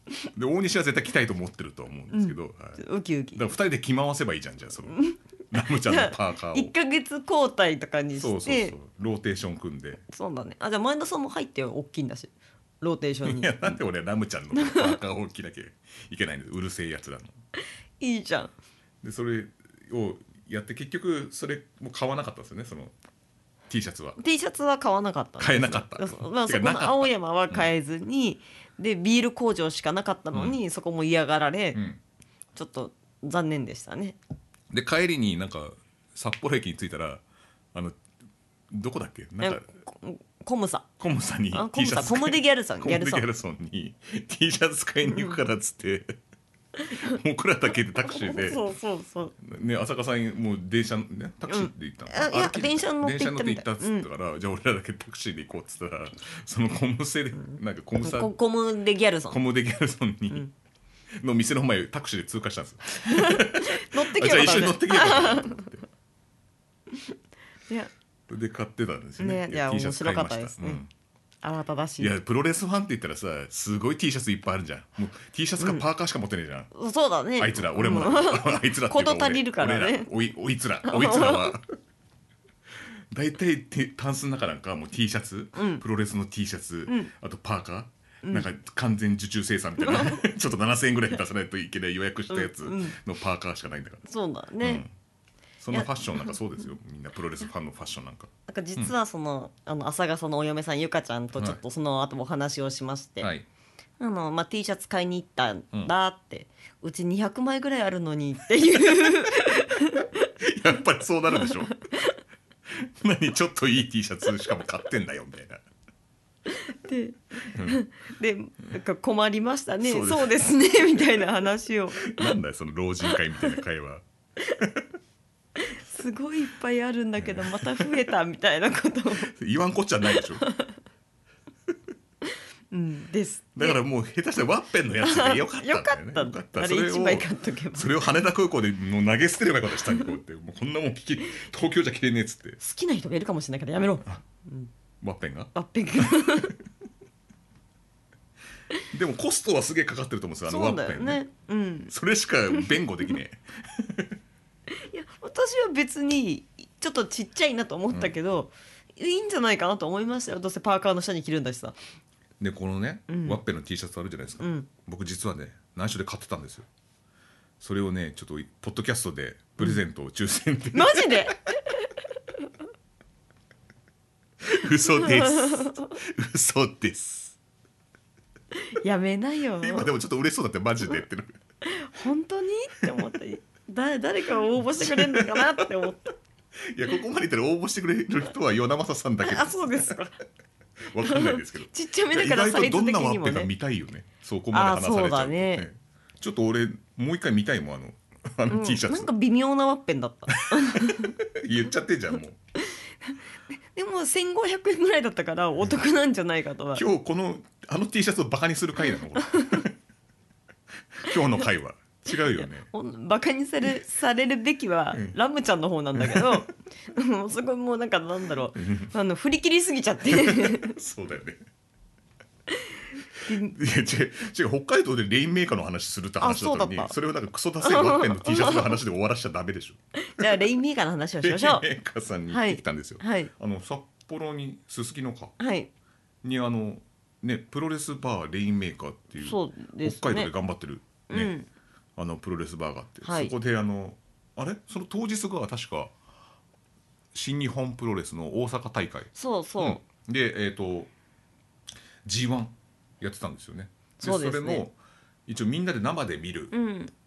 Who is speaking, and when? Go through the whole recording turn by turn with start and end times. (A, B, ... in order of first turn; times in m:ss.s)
0:00.3-0:02.8 A
0:02.1-0:03.4 B
0:03.4-0:06.7 A
0:04.9-0:08.8 B
0:08.1-0:10.0 A
0:10.1-0:13.8 B
0:13.2-0:17.3 A
0:14.5-0:15.0 B
0:18.0-0:18.5 B
0:19.0-0:22.9 A
0:23.7-0:24.2 A
0:24.2-0:31.8 B
0:25.4-0:27.7 A
0:31.7-0:32.0 A
0:32.6-0:34.2 B
0:34.7-0:37.2 A
0:38.7-0:39.7 A
0:39.4-0:40.9 B
0:41.0-0:46.2 A
0:41.5-0:43.3 B
0:45.1-0:45.4 B
0:47.0-0:48.6 A
0:48.1-0:49.4 B
0:49.4-0:58.3 A
0:51.5-0:54.1 B
0:57.5-0:59.4 B
0:59.3-1:00.5 A
1:01.2-1:05.8 A
1:03.0-1:05.7 B
1:08.3-1:10.9 A
1:09.2-1:10.8 B
1:11.4-1:12.1 B
1:12.0-1:16.7 A
1:15.6-1:15.8 B
1:16.7-1:20.1 B
1:17.4-1:21.7 A
1:20.9-1:21.5 B
1:23.1-1:34.0 A
1:25.6-1:25.8 B
1:29.9-1:30.2 B
1:32.3-1:33.0 B
1:34.1-1:34.8 B
1:34.6-1:34.9 A
1:35.6-1:38.9 A
1:35.7-1:36.3 B
1:38.5-1:43.3 B
1:43.2-1:43.5 A
1:44.0-1:50.3 B
1:50.4-1:51.8 A
1:51.4-1:52.2 B
1:52.7-1:55.6 A
1:56.5-2:02.3 B
1:59.8-2:00.6 A
2:02.0-2:04.9 A
2:05.6-2:09.3 B
2:07.2-2:08.1 A
2:09.3-2:10.4 A
2:10.1-2:10.7 B
2:12.7-2:13.8 B
2:13.6-2:22.6 A
2:15.0-2:18.0 B
2:22.6-2:24.7 B
2:25.0-2:26.5 A
2:25.5-2:26.6 B
2:28.9-2:31.2 A
2:30.5-2:31.9 B
2:31.9-2:34.2 A
2:34.7-2:41.8 B
2:42.4-2:46.7 A
2:43.1-2:43.4 B
2:44.4-2:44.7 B
2:47.6-2:51.4 A
2:50.7-2:51.5 B
2:54.4-2:57.4 A
2:55.0-2:55.9 B
2:58.5-2:59.9 B
2:59.6-3:01.4 A
3:01.6-3:06.2 B
3:04.7-3:05.7 A
3:06.6-3:10.0 A
3:09.2-3:10.2 B
3:10.8-3:19.1 A
3:11.0-3:13.5 B
3:14.5-3:15.7 B
3:18.5-3:21.2 B
3:20.4-3:22.4 A
3:23.7-3:26.8 B
3:26.8-3:29.8 A
3:29.4-3:29.6 B
3:31.0-3:32.7 A
3:32.3-3:40.8 B
3:36.0-3:36.4 A
3:38.6-3:38.9 A
3:40.1-3:41.4 A
3:43.2-3:43.6 B
3:43.3-3:50.4 A
3:46.2-3:47.0 B
3:47.6-3:48.7 B
3:50.0-3:51.7 B
3:51.2-3:55.4 A
3:52.3-3:53.3 B
3:55.4-3:55.7 B
3:56.2-4:01.3 A
3:59.2-4:00.3 B
4:01.1-4:01.5 B
4:02.0-4:05.9 A
4:03.0-4:03.3 B
4:07.1-4:10.9 A
4:09.2-4:09.8 B
4:12.0-4:16.5 A
4:14.0-4:14.6 B
4:16.5-4:16.9 B